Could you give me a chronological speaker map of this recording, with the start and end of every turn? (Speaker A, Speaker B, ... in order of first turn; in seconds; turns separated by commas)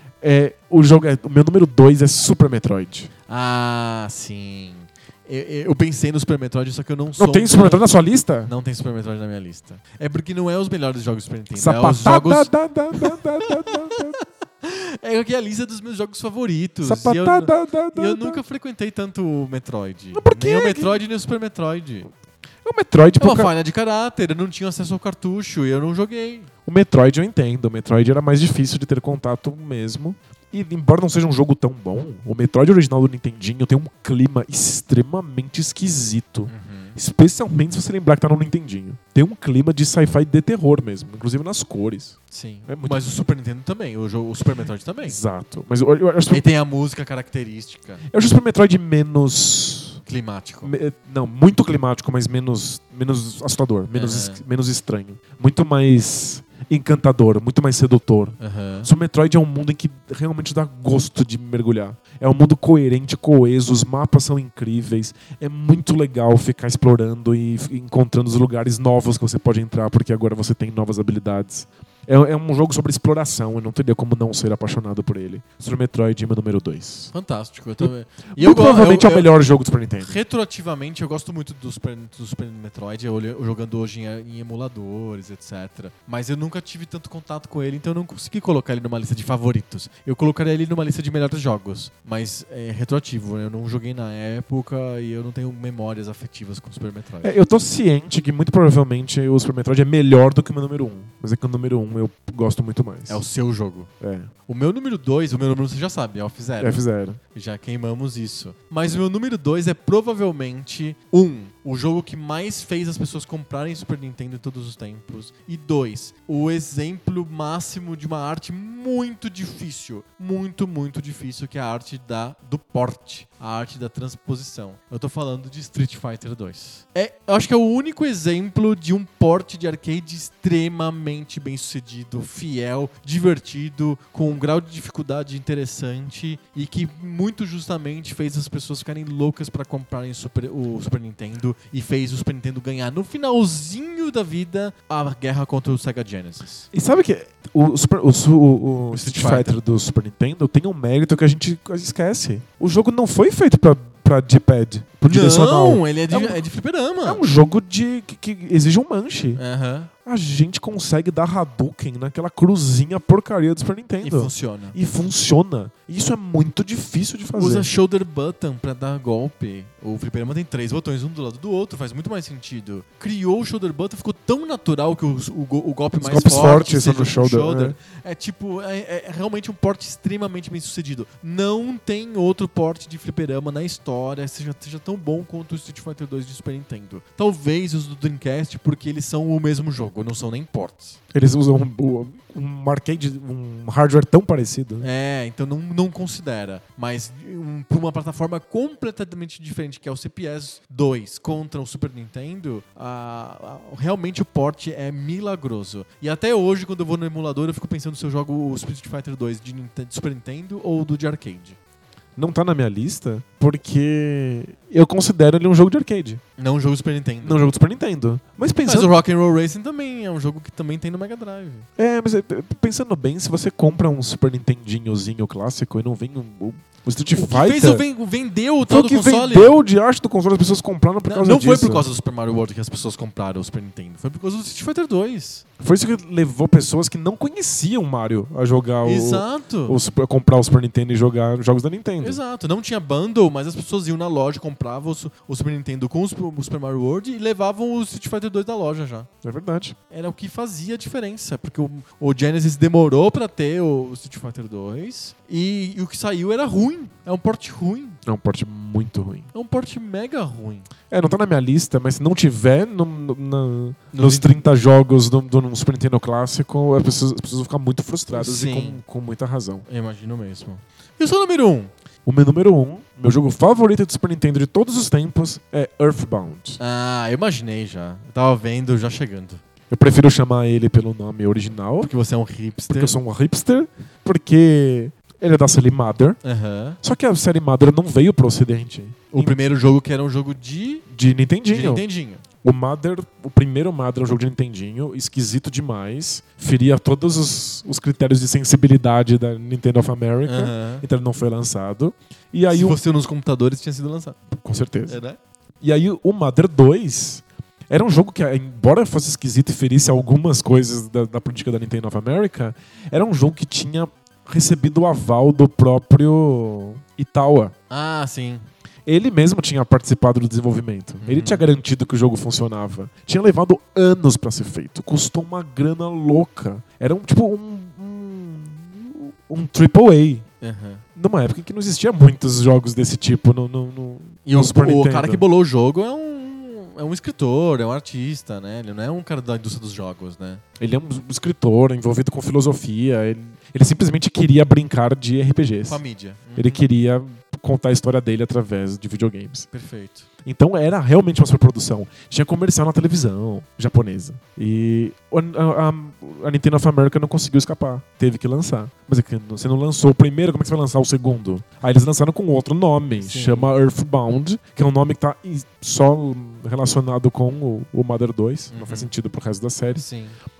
Speaker A: 0.2-3.1, Speaker B: 3.3-7.9, Speaker A: 7.2-8.5, Speaker B: 8.4-14.0, Speaker A: 11.6-14.2, Speaker B: 14.6-22.1, Speaker A: 16.8-18.4, Speaker A: 20.1-21.0, Speaker A: 22.6-23.5, Speaker B: 23.2-26.5, Speaker A: 26.7-43.0, Speaker B: 36.5-37.0, Speaker B: 42.3-45.2, Speaker A: 45.0-46.4, Speaker B: 46.3-48.0, Speaker A: 48.1-50.0, Speaker B: 50.1-50.7, Speaker A: 50.6-77.1, Speaker B: 53.9-54.4, Speaker B: 58.4-58.9, Speaker B: 77.1-79.3, Speaker A: 77.8-80.2, Speaker B: 80.0-97.3, Speaker A: 97.2-103.2, Speaker B: 103.1-103.9, Speaker A: 104.0-104.3, Speaker B: 104.5-106.8, Speaker A: 106.6-107.2, Speaker B: 107.3-146.7, Speaker A: 146.7-156.4, Speaker B: 148.9-149.5, Speaker B: 155.1-157.2, Speaker A: 157.1-159.4, Speaker B: 159.4-159.9, Speaker A: 160.1-167.7, Speaker B: 164.0-164.8, Speaker B: 167.3-191.0, Speaker A: 176.0-177.8, Speaker A: 191.1-194.9, Speaker B: 194.8-211.6, Speaker A: 212.2-216.2, Speaker B: 216.4-217.5, Speaker A: 217.2-218.9, Speaker B: 218.6-221.7, Speaker A: 221.8-227.8, Speaker B: 227.2-229.6, Speaker A: 228.7-231.9, Speaker B: 231.1-235.4, Speaker A: 235.6-242.2, Speaker B: 238.8-239.8, Speaker B: 242.0-249.1, Speaker A: 249.2-249.8, Speaker B: 249.9-258.0, Speaker A: 258.1-259.3, Speaker B: 259.3-260.7, Speaker A: 260.9-269.6, Speaker B: 263.9-264.4, Speaker B: 268.1-268.8, Speaker B: 269.7-271.7, Speaker A: 272.1-276.6, Speaker B: 276.6-279.4, Speaker A: 279.7-281.9, Speaker B: 281.8-282.9, Speaker A: 282.7-286.2, Speaker B: 286.2-286.8, Speaker A: 286.8-289.4, Speaker B: 289.1-290.8, Speaker A: 290.9-291.9, Speaker B: 291.5-292.2, Speaker A: 292.4-302.8, Speaker B: 300.3-300.9, Speaker B: 302.5-304.2, Speaker A: 304.3-305.0, Speaker B: 304.9-305.2, Speaker A: 305.6-317.5, Speaker B: 317.7-318.4, Speaker A: 318.9-330.3, Speaker B: 321.0-321.5, Speaker B: 330.4-330.8, Speaker A: 331.0-335.2, Speaker B: 334.3-340.4, Speaker A: 340.6-345.8, Speaker B: 345.7-346.6, Speaker A: 346.4-349.5, Speaker B: 349.5-350.1, Speaker A: 350.2-369.9, Speaker B: 363.0-363.5, Speaker B: 368.5-368.9, Speaker B: 369.8-370.2